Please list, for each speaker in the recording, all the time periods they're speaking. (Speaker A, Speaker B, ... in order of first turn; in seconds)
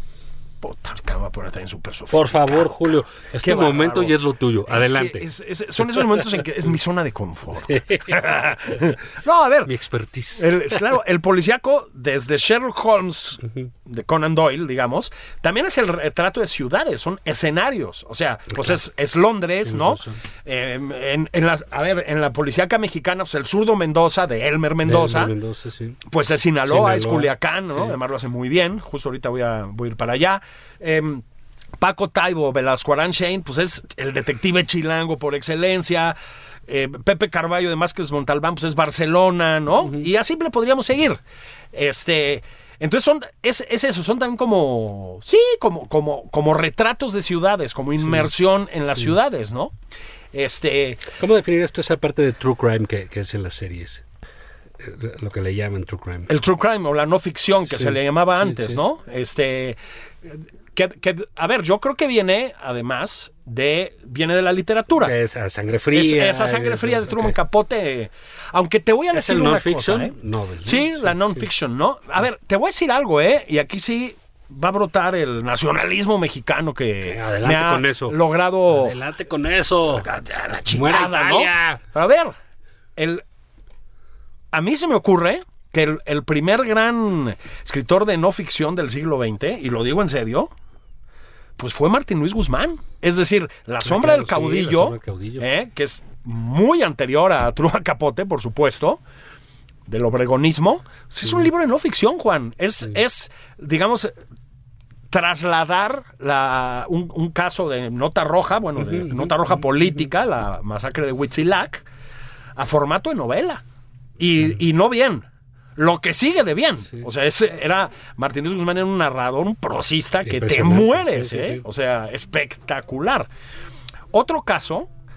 Speaker A: 0.6-4.2, 4.7-9.7, 10.4-25.3, 26.1-31.2, 31.8-36.2, 36.7-41.2, 41.7-49.7, 50.3-51.1, 56.3-65.1, 65.9-70.1, 70.7-79.0, 80.0-82.3, 83.0-83.2, 84.5-90.5, 91.6-99.0, 99.9-104.1, 105.1-111.9, 112.6-113.6, 114.2-115.3, 115.8-123.3, 124.1-124.9
Speaker B: 2.1-5.3, 5.8-6.5, 7.7-8.9, 9.7-10.8, 18.5-18.8, 19.6-20.2, 24.8-26.0, 26.6-28.0, 39.8-40.1, 48.0-48.3, 51.2-54.0, 54.8-56.3, 57.7-58.8, 65.0-67.4, 69.1-71.5, 77.0-78.2, 78.7-80.1, 80.7-81.8, 93.8-95.5, 108.8-109.7, 120.2-121.7